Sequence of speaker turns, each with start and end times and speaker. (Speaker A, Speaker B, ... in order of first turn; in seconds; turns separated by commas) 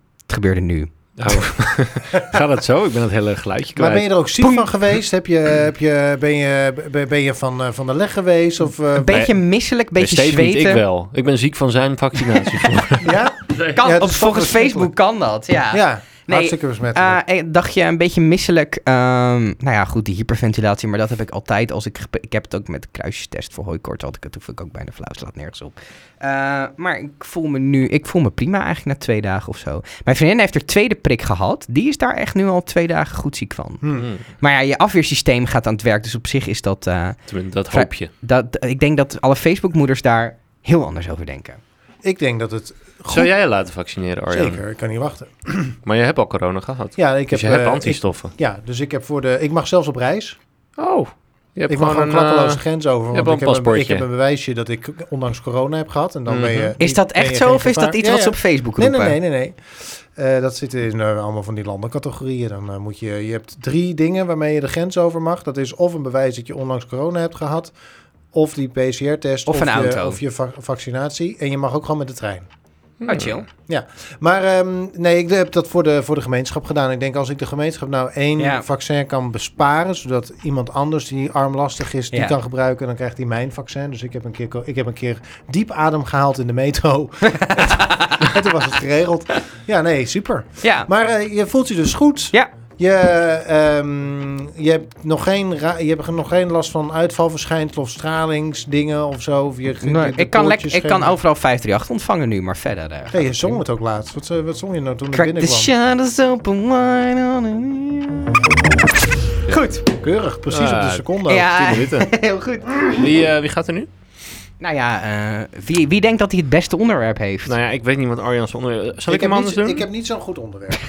Speaker A: 0.3-0.9, Speaker B: 1.2-4.0, Speaker C: 3.8-9.2, Speaker A: 4.4-4.7, Speaker A: 8.9-10.8, Speaker B: 10.0-13.7, Speaker C: 13.0-14.9, Speaker A: 13.7-37.2, Speaker C: 15.7-17.2, Speaker C: 33.8-34.1, Speaker B: 34.0-34.2, Speaker B: 37.3-38.1, Speaker A: 37.7-41.6, Speaker C: 42.0-43.3, Speaker B: 43.1-44.6, Speaker C: 44.3-45.8, Speaker B: 45.8-48.3, Speaker C: 47.0-50.4, Speaker B: 50.8-54.0, Speaker C: 51.7-67.7, Speaker B: 56.3-56.7, Speaker A: 56.8-59.2, Speaker C: 68.3-72.5, Speaker A: 69.5-70.2, Speaker B: 73.0-73.4, Speaker A: 73.1-73.5, Speaker C: 73.7-101.2, Speaker A: 78.4-78.6, Speaker A: 87.2-88.3, Speaker A: 90.6-90.9, Speaker A: 99.8-103.5, Speaker C: 103.1-105.7, Speaker A: 105.1-108.3, Speaker A: 109.5-109.8, Speaker C: 109.9-111.7, Speaker B: 110.5-112.1, Speaker A: 111.3-113.0, Speaker B: 112.8-113.9, Speaker A: 114.6-117.5, Speaker B: 117.5-119.9, Speaker C: 119.1-120.8